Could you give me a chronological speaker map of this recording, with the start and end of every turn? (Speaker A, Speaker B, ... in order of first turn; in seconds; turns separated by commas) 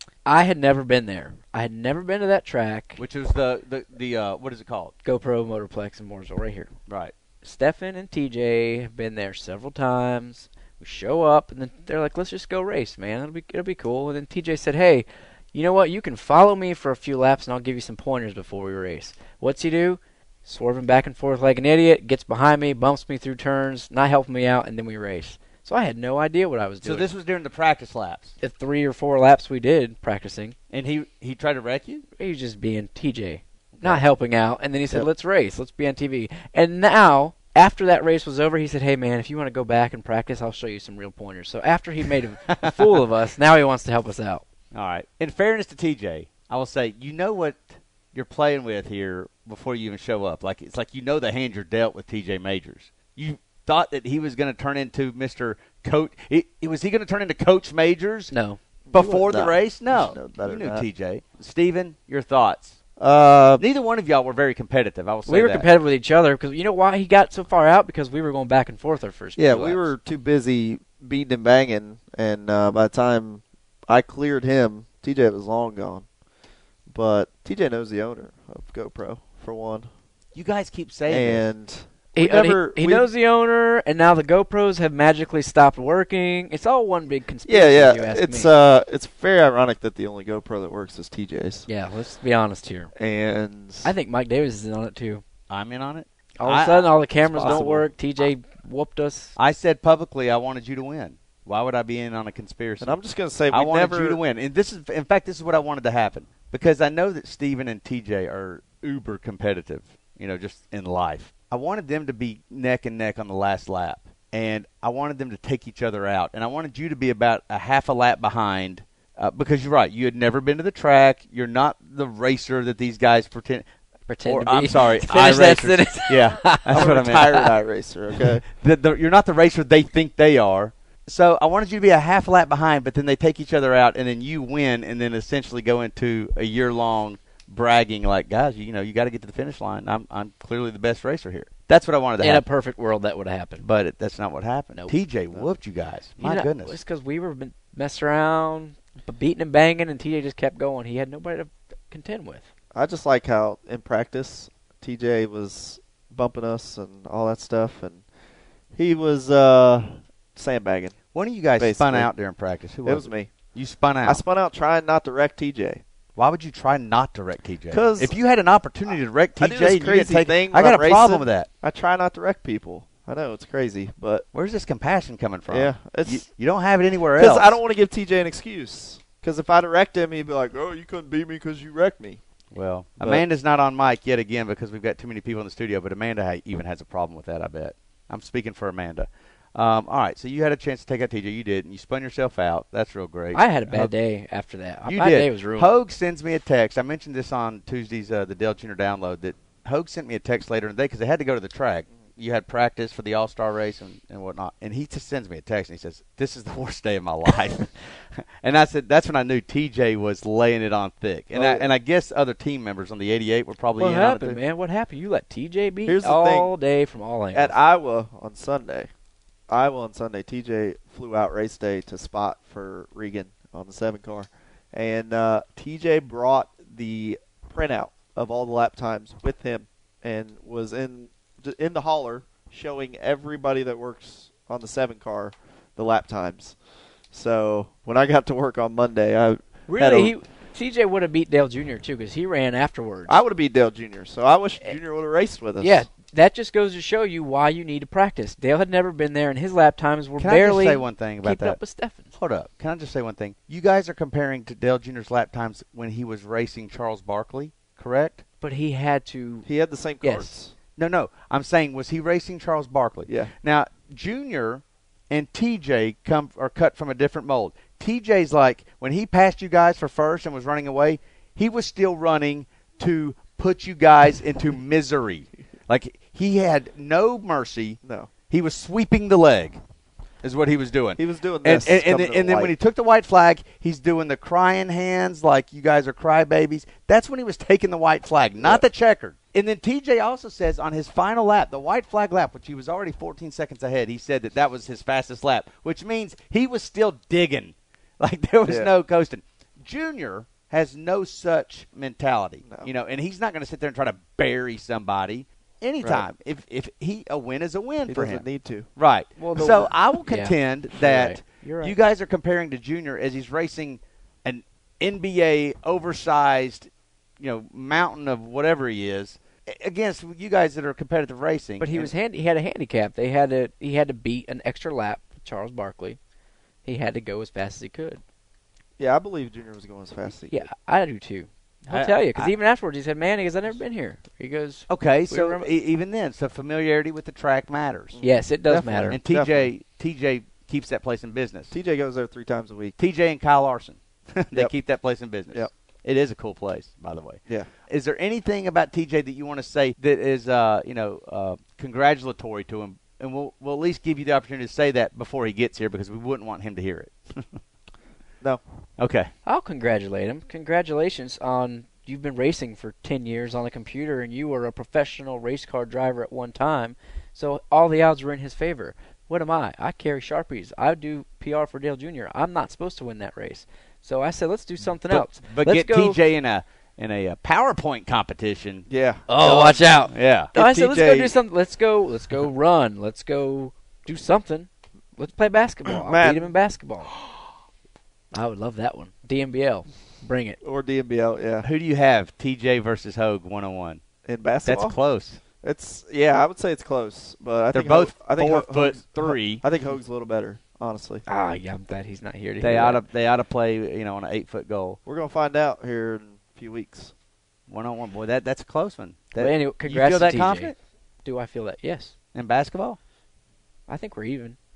Speaker A: 0.2-3.0, Speaker B: 3.0-4.9, Speaker A: 5.0-6.7, Speaker B: 6.9-7.1, Speaker A: 7.4-27.1, Speaker B: 26.8-28.3, Speaker A: 28.4-30.6, Speaker B: 30.7-32.0, Speaker A: 32.2-44.4, Speaker B: 42.5-42.7, Speaker B: 44.7-58.3, Speaker A: 58.3-58.6, Speaker C: 58.9-60.9, Speaker B: 58.9-62.8, Speaker C: 63.0-63.6, Speaker B: 63.6-65.7, Speaker A: 65.3-69.9, Speaker C: 69.4-76.1, Speaker C: 76.9-79.9, Speaker B: 80.3-81.5, Speaker C: 81.1-83.1, Speaker A: 82.2-88.5, Speaker C: 87.5-91.7, Speaker A: 91.7-92.9, Speaker C: 93.0-93.9, Speaker A: 93.8-95.2, Speaker B: 95.5-97.8, Speaker A: 96.4-99.3, Speaker C: 97.4-97.8, Speaker B: 99.4-103.0, Speaker C: 102.8-104.2, Speaker B: 103.5-123.7, Speaker A: 124.1-126.9, Speaker B: 124.3-127.4, Speaker C: 126.7-128.5, Speaker B: 128.6-142.4, Speaker A: 142.2-143.6, Speaker B: 143.6-146.8, Speaker A: 146.2-152.5, Speaker C: 152.7-158.0, Speaker C: 158.7-161.0, Speaker B: 161.1-164.2, Speaker C: 161.6-162.1, Speaker C: 162.8-163.3, Speaker C: 164.1-165.8, Speaker B: 166.2-171.5, Speaker C: 167.7-168.2, Speaker C: 169.4-174.3, Speaker B: 174.3-177.6, Speaker C: 175.5-176.2, Speaker C: 177.2-182.2, Speaker B: 182.5-193.9, Speaker A: 193.3-195.7, Speaker B: 194.9-214.4, Speaker C: 211.3-211.7, Speaker A: 213.8-217.5, Speaker C: 215.9-216.5, Speaker C: 217.3-218.9, Speaker C: 219.5-236.6, Speaker C: 237.1-240.1, Speaker A: 239.7-243.2, Speaker C: 243.1-245.9, Speaker A: 245.6-252.1, Speaker B: 250.2-251.6, Speaker B: 252.2-258.2, Speaker A: 258.4-259.5, Speaker C: 259.4-260.5, Speaker A: 260.0-260.3, Speaker B: 260.8-279.6, Speaker C: 263.1-263.3, Speaker C: 277.8-278.1, Speaker B: 280.2-316.7, Speaker C: 281.0-282.5, Speaker C: 302.4-302.7, Speaker C: 307.9-308.7, Speaker A: 309.2-311.8, Speaker B: 317.2-321.9, Speaker A: 321.6-326.0, Speaker A: 326.6-328.0, Speaker C: 328.8-330.5, Speaker A: 330.3-335.5, Speaker B: 331.7-332.3, Speaker B: 334.7-338.0, Speaker C: 337.9-339.5, Speaker A: 338.0-339.0, Speaker B: 338.9-341.5, Speaker C: 341.5-342.8, Speaker B: 342.8-357.4, Speaker B: 358.8-359.1, Speaker A: 359.2-376.0, Speaker B: 374.9-378.7, Speaker C: 378.7-379.6, Speaker A: 379.1-386.9, Speaker B: 379.9-380.3, Speaker C: 380.4-381.1, Speaker C: 385.7-386.3, Speaker A: 388.1-390.4, Speaker C: 390.4-391.5, Speaker B: 391.4-393.8, Speaker C: 394.1-394.8, Speaker B: 394.4-395.2, Speaker C: 395.4-401.0, Speaker B: 397.5-399.4, Speaker A: 401.1-402.8, Speaker B: 402.4-404.8, Speaker C: 404.9-406.9, Speaker B: 407.5-410.5, Speaker A: 409.2-411.9, Speaker B: 412.1-412.8, Speaker A: 413.7-414.4